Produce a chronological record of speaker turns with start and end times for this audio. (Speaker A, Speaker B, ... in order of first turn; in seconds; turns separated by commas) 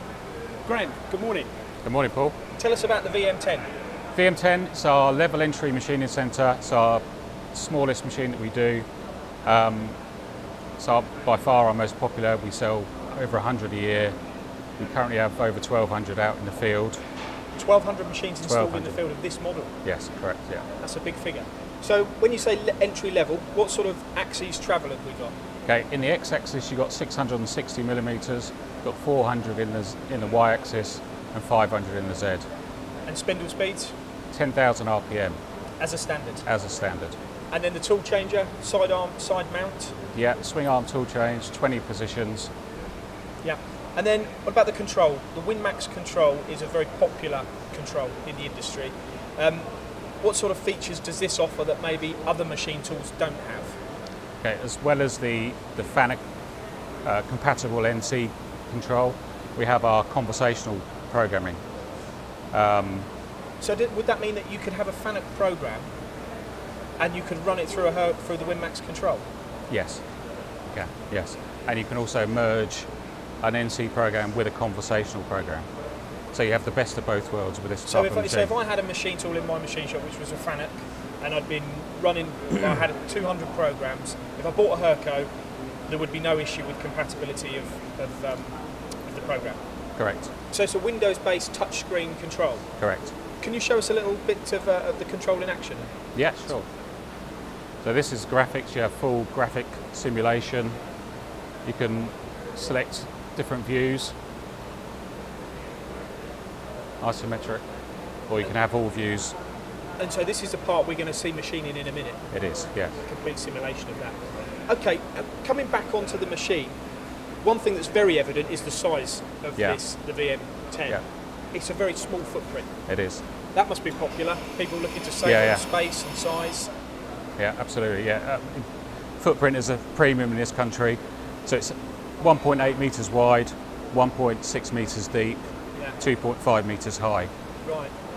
Speaker A: 0.6-1.5, Speaker B: 1.8-2.4, Speaker A: 2.5-3.6, Speaker B: 4.1-8.8, Speaker B: 9.4-9.9, Speaker B: 10.8-14.1, Speaker B: 14.8-17.0, Speaker A: 17.6-19.7, Speaker B: 18.4-19.0, Speaker B: 19.8-20.6, Speaker A: 20.8-25.3, Speaker B: 25.7-32.4, Speaker A: 33.1-33.9, Speaker B: 34.3-35.4, Speaker A: 35.8-36.4, Speaker B: 36.5-37.1, Speaker A: 37.5-40.0, Speaker B: 40.1-42.5, Speaker A: 43.4-49.7, Speaker A: 50.2-53.8, Speaker B: 54.4-56.2, Speaker B: 57.0-61.6, Speaker B: 62.5-63.1, Speaker A: 63.6-65.9, Speaker A: 67.0-69.2, Speaker B: 69.7-70.0, Speaker B: 70.7-72.9, Speaker B: 73.4-75.7, Speaker B: 76.3-78.5, Speaker A: 77.9-85.3, Speaker A: 85.9-89.6, Speaker B: 90.0-90.3, Speaker A: 90.5-92.7, Speaker B: 92.8-93.1, Speaker A: 93.4-95.9, Speaker B: 96.1-96.6, Speaker B: 97.8-100.8, Speaker B: 101.6-104.2, Speaker B: 107.0-107.6, Speaker B: 108.3-109.3, Speaker A: 110.0-112.2, Speaker B: 112.3-113.0, Speaker A: 113.0-116.7, Speaker A: 117.4-122.7, Speaker B: 122.9-123.2, Speaker A: 123.5-126.7, Speaker B: 125.2-125.6, Speaker B: 127.4-135.5, Speaker B: 136.0-137.3, Speaker A: 137.6-137.9